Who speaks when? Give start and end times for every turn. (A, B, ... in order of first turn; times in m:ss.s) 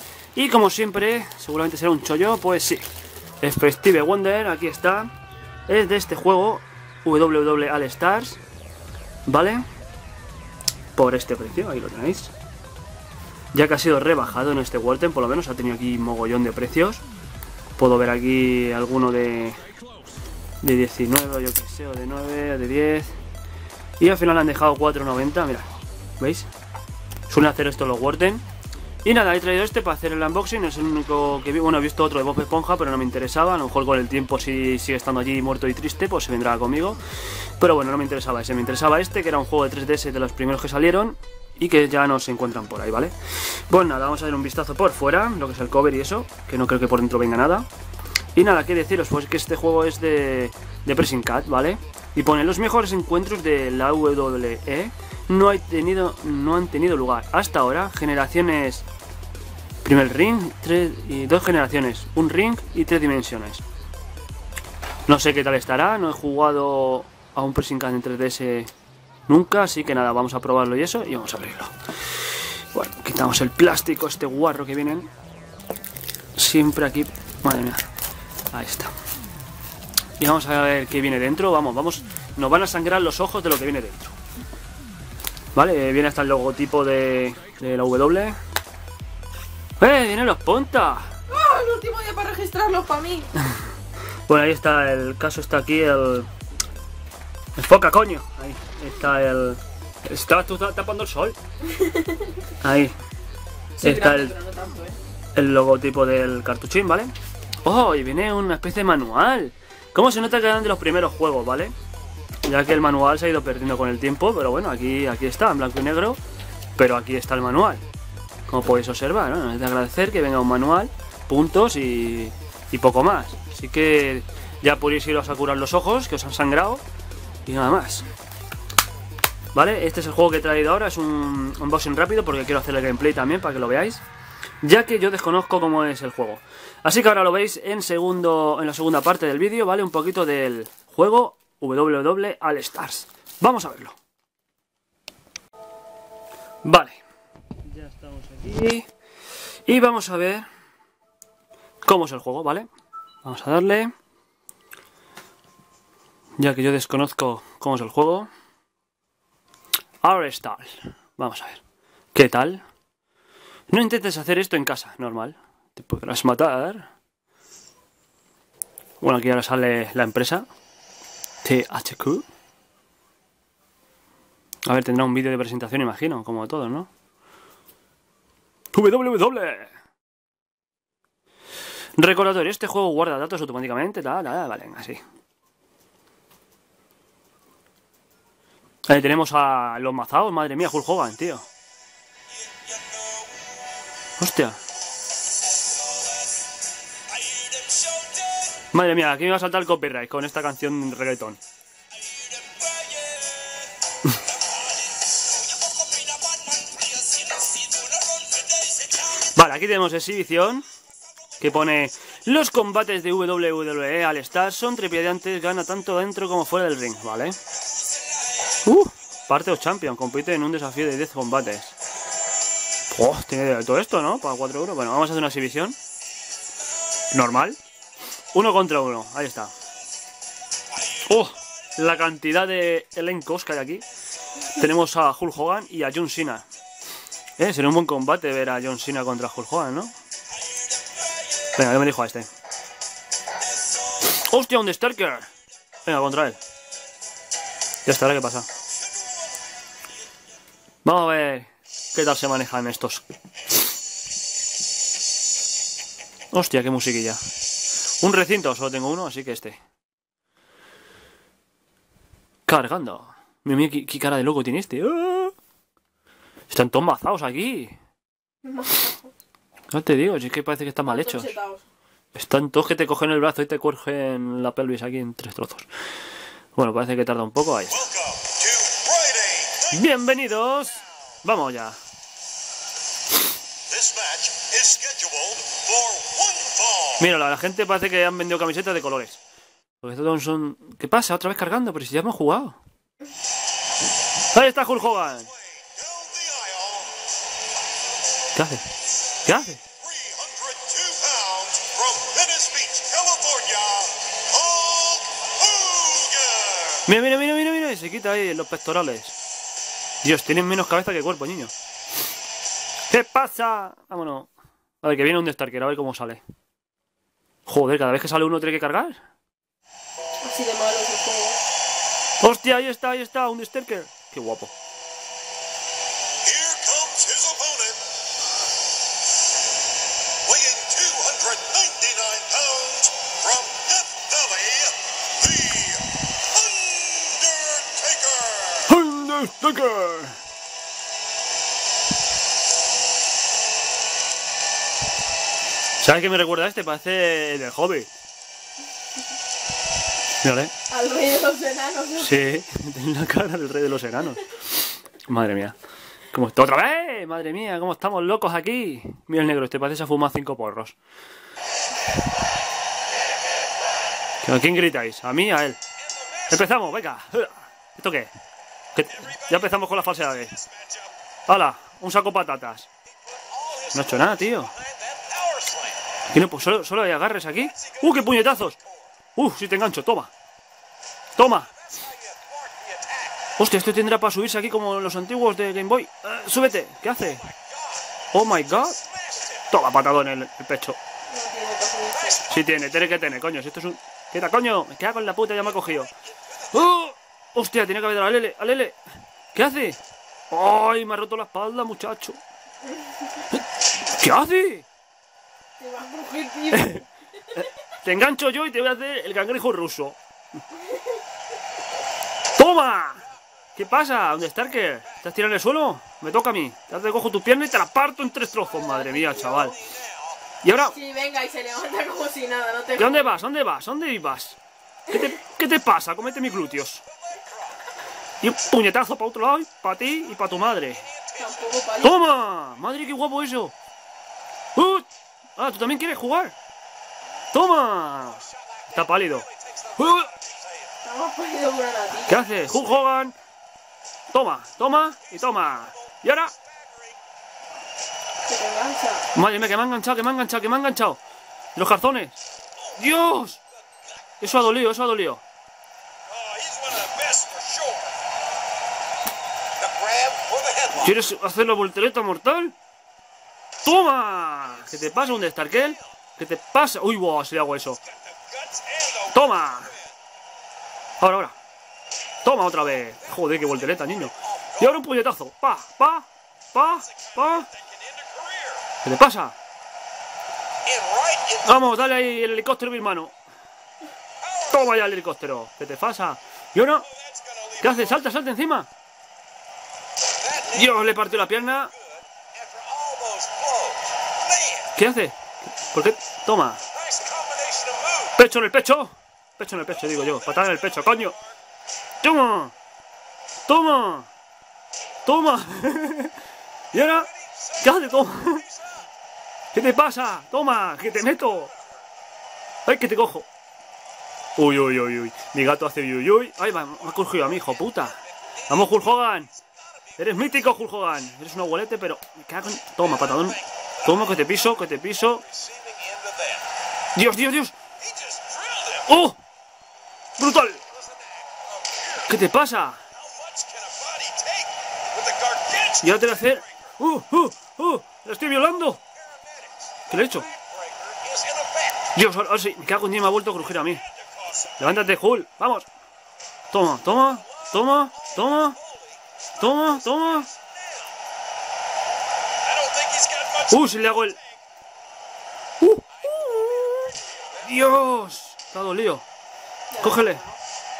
0:00.3-0:02.8 A
0:03.4-0:05.1 A
0:05.7-0:08.4 A
0:09.2-0:09.6 A
0:11.0-0:12.3 A
0:13.5-0:17.0 A
0:17.8-0:19.6 A
0:20.6-0:23.2 A
0:24.0-0:25.7 A
0:26.2-0:26.5 A
0:27.3-0:28.4 A
0:29.0-0:37.0 A
0:37.6-0:47.7 A
0:48.3-0:58.8 A
0:59.8-1:03.6 A
1:05.1-1:08.7 A
1:09.3-1:11.7 A
1:12.7-1:15.1 A
1:16.4-1:17.8 A
1:18.5-1:18.9 A
1:20.2-1:24.1 A
1:25.5-1:28.4 A
1:29.8-1:31.1 A
1:31.3-1:33.3 B
1:34.3-1:36.3 A
1:37.6-1:41.4 A
1:42.6-1:42.9 A
1:43.8-1:45.0 B
1:43.8-1:44.3 A
1:45.3-1:47.1 A
1:47.6-1:51.7 A
1:52.4-1:56.2 A
1:56.8-1:57.8 A
1:58.5-2:06.8 A
2:07.4-2:08.1 A
2:09.5-2:14.0 A
2:14.6-2:24.0 A
2:26.6-2:27.0 A
2:27.6-2:28.9 A
2:29.7-2:30.4 A
2:31.8-2:32.7 A
2:33.2-2:33.9 A
2:36.4-2:38.3 A
2:40.0-2:41.6 A
2:42.1-2:42.6 A
2:43.7-2:46.9 A
2:49.0-2:50.4 A
2:51.4-2:52.2 A
2:54.6-2:56.9 A
2:58.7-2:59.7 A
3:02.0-3:05.0 A
3:08.9-3:11.4 A
3:14.2-3:14.6 A
3:18.7-3:21.4 A
3:29.3-3:30.6 A
3:31.4-3:37.4 A
3:38.6-3:41.8 A
3:42.9-3:45.8 A
3:47.1-3:47.6 A
3:48.3-3:49.5 A
3:51.0-3:53.8 A
3:54.5-3:56.4 A
3:57.4-3:59.9 A
4:01.5-4:02.3 A
4:04.0-4:05.3 A
4:05.8-4:06.4 A
4:07.8-4:08.5 A
4:10.8-4:13.0 A
4:16.3-4:17.2 A
4:18.0-4:19.6 A
4:22.5-4:25.3 A
4:26.5-4:27.8 A
4:28.4-4:29.0 B
4:29.7-4:31.3 A
4:30.8-4:31.6 B
4:32.1-4:35.7 A
4:36.5-4:37.9 A
4:37.9-4:39.7 C
4:39.7-4:41.8 A
4:43.7-4:46.9 C
4:47.0-4:49.2 A
4:49.8-4:52.6 A
4:54.3-4:55.3 A
4:55.7-4:56.9 C
4:58.3-4:58.6 A
4:59.2-4:59.6 A
4:59.9-5:06.8 C
5:06.8-5:09.1 A
5:10.0-5:11.5 A
5:12.9-5:14.3 A
5:14.8-5:16.2 A
5:17.4-5:19.0 A
5:20.2-5:21.4 B
5:22.2-5:24.5 A
5:26.2-5:27.8 C
5:30.2-5:35.8 C
5:36.6-5:38.5 C
5:38.6-5:40.2 A
5:45.8-5:47.9 A
5:50.2-5:50.5 A
5:50.7-5:52.1 B
5:52.0-5:55.6 A
5:56.1-6:00.8 A
6:04.2-6:05.6 A
6:06.3-6:08.1 A
6:08.7-6:10.4 A
6:10.5-6:10.9 C
6:11.3-6:12.7 A
6:13.3-6:13.7 C
6:13.7-6:14.5 A
6:14.6-6:15.8 C
6:16.1-6:18.6 A
6:19.2-6:20.1 A
6:21.2-6:21.5 A
6:21.9-6:23.1 C
6:23.4-6:27.3 A
6:28.1-6:28.8 A
6:29.5-6:30.8 A
6:31.1-6:32.1 B
6:32.3-6:38.8 A
6:39.3-6:39.8 A
6:40.3-6:42.2 A
6:43.4-6:44.6 A
6:45.6-6:46.7 B
6:46.5-6:50.0 A
6:52.4-6:59.6 A
6:58.7-6:59.4 B
7:00.4-7:00.8 A
7:00.7-7:03.1 B
7:02.8-7:06.8 A
7:08.2-7:10.8 A
7:11.2-7:11.9 B
7:11.8-7:13.5 A
7:14.5-7:16.3 A
7:17.3-7:20.1 A
7:20.8-7:22.2 B
7:22.0-7:23.1 A
7:24.1-7:26.4 A
7:28.2-7:29.0 B
7:29.1-7:31.0 A
7:31.6-7:32.2 A
7:32.7-7:33.4 A
7:34.2-7:35.2 A
7:36.2-7:37.9 C
7:39.6-7:40.7 C
7:40.7-7:42.5 A
7:43.6-7:47.8 A
7:48.4-7:49.0 C
7:49.1-7:49.7 A
7:51.0-7:51.3 A
7:52.2-7:57.5 A
7:57.8-7:58.6 C
7:58.8-7:59.4 A
8:00.7-8:01.4 C
8:01.4-8:03.1 A
8:04.4-8:06.9 A
8:07.0-8:07.6 C
8:07.6-8:08.7 A
8:10.5-8:11.7 A
8:12.4-8:14.6 C
8:14.8-8:16.6 A
8:16.8-8:18.1 C
8:18.2-8:21.2 A
8:22.0-8:22.5 A
8:23.5-8:24.1 A
8:25.0-8:26.1 A
8:26.7-8:28.5 A
8:29.5-8:31.5 A
8:32.6-8:33.3 A
8:34.4-8:39.3 A
8:40.0-8:45.2 A
8:45.3-8:46.4 C
8:46.9-8:47.5 A
8:47.9-8:48.7 C
8:48.8-8:49.2 A
8:50.2-8:50.6 A
8:52.0-8:52.8 A
8:53.0-8:55.8 C
8:55.8-8:58.8 A
8:59.2-8:59.8 C
8:59.9-9:00.3 A
9:00.4-9:01.7 C
9:01.9-9:03.8 A
9:04.6-9:05.7 A
9:06.5-9:08.6 A
9:09.4-9:10.3 A
9:12.5-9:13.4 C
9:13.4-9:14.2 A
9:15.6-9:19.0 A
9:19.7-9:20.4 B
9:19.8-9:20.2 A